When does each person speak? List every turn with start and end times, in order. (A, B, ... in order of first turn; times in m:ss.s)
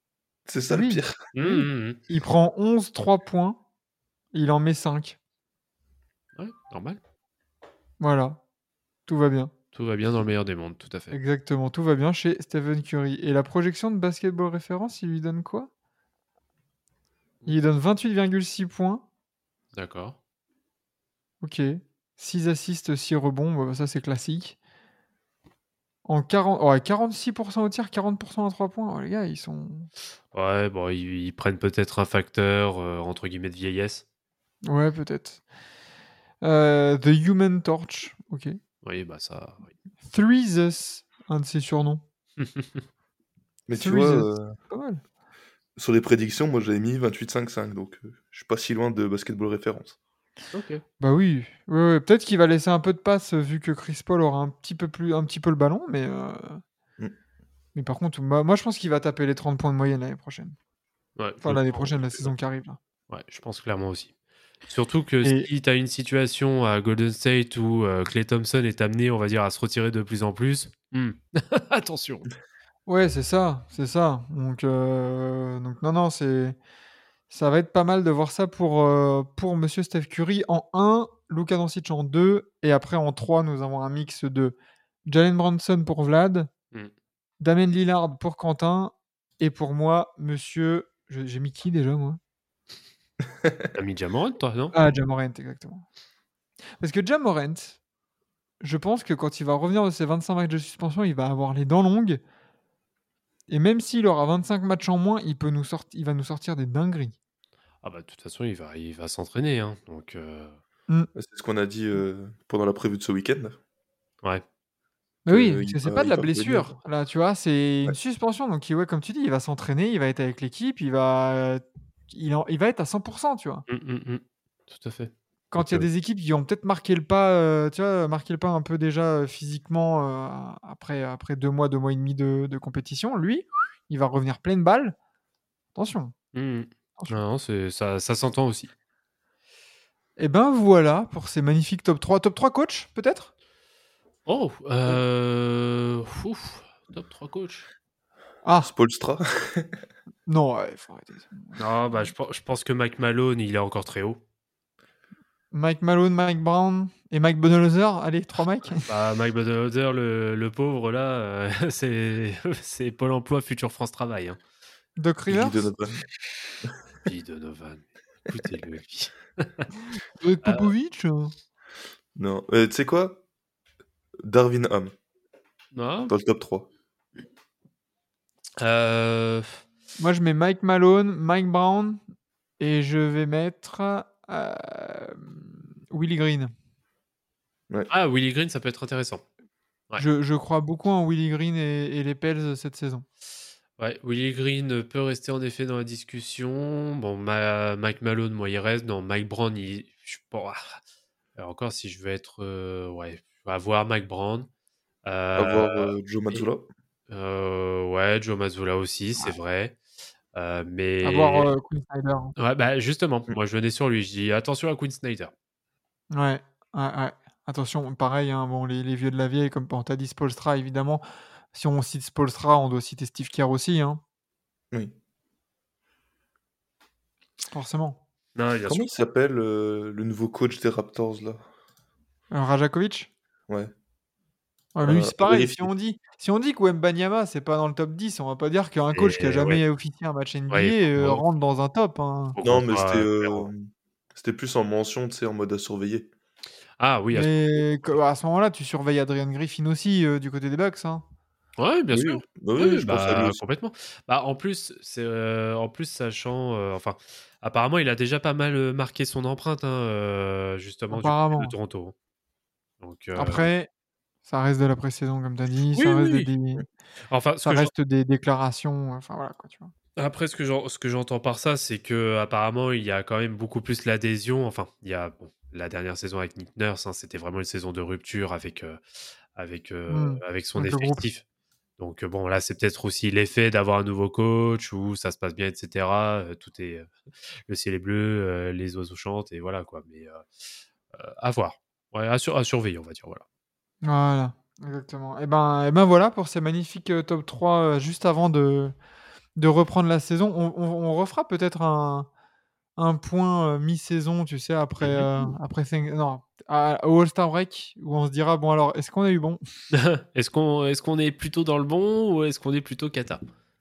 0:00.4-0:01.2 A
0:00.7-0:03.6 B
0:01.3-0:02.0 C
0:04.3-0:05.2 B
0:06.4-0:07.0 C
0:08.0-0:08.4 B
0:09.1-0:09.5 B
0:09.7-0:11.2 C
0:11.1-0:15.7 B
0:17.4-0:19.0 B
0:19.7-0:20.2 C
0:21.4-0:24.6 B
0:26.0-0:29.9 B
0:30.3-0:34.0 C
0:34.6-0:35.4 B
0:36.4-0:38.6 B
0:38.8-0:39.7 C
0:40.0-0:42.0 B
0:42.4-0:42.8 C
0:43.7-0:44.5 A
0:43.7-0:45.0 B
0:45.8-0:50.0 A
0:50.5-0:50.8 C
0:51.0-0:56.6 B
0:57.7-1:00.5 B
1:01.2-1:01.9 C
1:01.4-1:02.8 B
1:03.1-1:04.1 C
1:04.6-1:12.3 C
1:05.2-1:05.5 B
1:12.8-1:16.6 B
1:17.3-1:26.5 B
1:27.4-1:32.2 B
1:33.4-1:33.7 A
1:33.7-1:34.7 C
1:34.7-1:35.8 B
1:36.8-1:37.8 B
1:38.6-1:42.2 B
1:43.5-1:47.2 B
1:47.8-1:50.6 C
1:51.1-1:53.6 A
1:55.2-2:03.6 B
1:55.3-1:56.7 A
2:03.7-2:05.1 C
2:05.5-2:15.0 B
2:15.7-2:16.1 B
2:16.3-2:18.7 C
2:20.2-2:23.3 B
2:24.2-2:27.7 C
2:28.4-2:28.7 B
2:28.6-2:29.8 A
2:30.3-2:32.1 B
2:31.6-2:34.2 C
2:35.5-2:38.9 B
2:38.8-2:44.4 C
2:45.0-2:45.7 B
2:45.3-2:46.0 A
2:47.0-2:49.7 C
2:50.2-2:51.3 B
2:50.4-2:50.7 C
2:52.2-2:53.2 A
2:54.2-2:54.9 A
2:55.7-2:56.1 C
2:56.1-2:56.7 A
2:58.6-2:59.6 C
3:00.0-3:02.0 B
3:02.6-3:06.5 B
3:07.9-3:09.2 C
3:10.0-3:13.0 B
3:13.8-3:20.8 C
3:21.4-3:24.5 C
3:25.0-3:26.4 C
3:25.4-3:26.6 A
3:27.1-3:29.8 C
3:30.3-3:31.5 C
3:31.0-3:32.3 B
3:32.4-3:35.3 C
3:36.1-3:44.0 B
3:47.5-3:48.0 B
3:48.4-3:48.9 C
3:48.6-3:51.4 A
3:52.3-3:53.1 B
3:54.7-4:02.4 B
3:54.8-3:55.7 A
3:58.9-3:59.6 C
4:00.5-4:01.2 C
4:02.4-4:03.5 C
4:02.4-4:06.1 A
4:06.8-4:07.9 C
4:07.1-4:11.0 B
4:11.6-4:21.9 C
4:11.9-4:13.4 A
4:20.9-4:21.5 B
4:22.8-4:23.5 C
4:23.2-4:23.7 B
4:24.2-4:26.6 B
4:25.7-4:26.3 C
4:27.1-4:27.7 C
4:27.4-4:29.7 B
4:30.0-4:38.8 C
4:39.4-4:41.2 C
4:39.9-4:41.0 B
4:41.8-4:46.9 C
4:47.5-4:50.2 C
4:50.9-4:53.2 C
4:53.8-4:58.7 B
4:59.4-5:02.1 B
5:02.8-5:09.4 B
5:04.8-5:05.3 C
5:09.7-5:13.2 C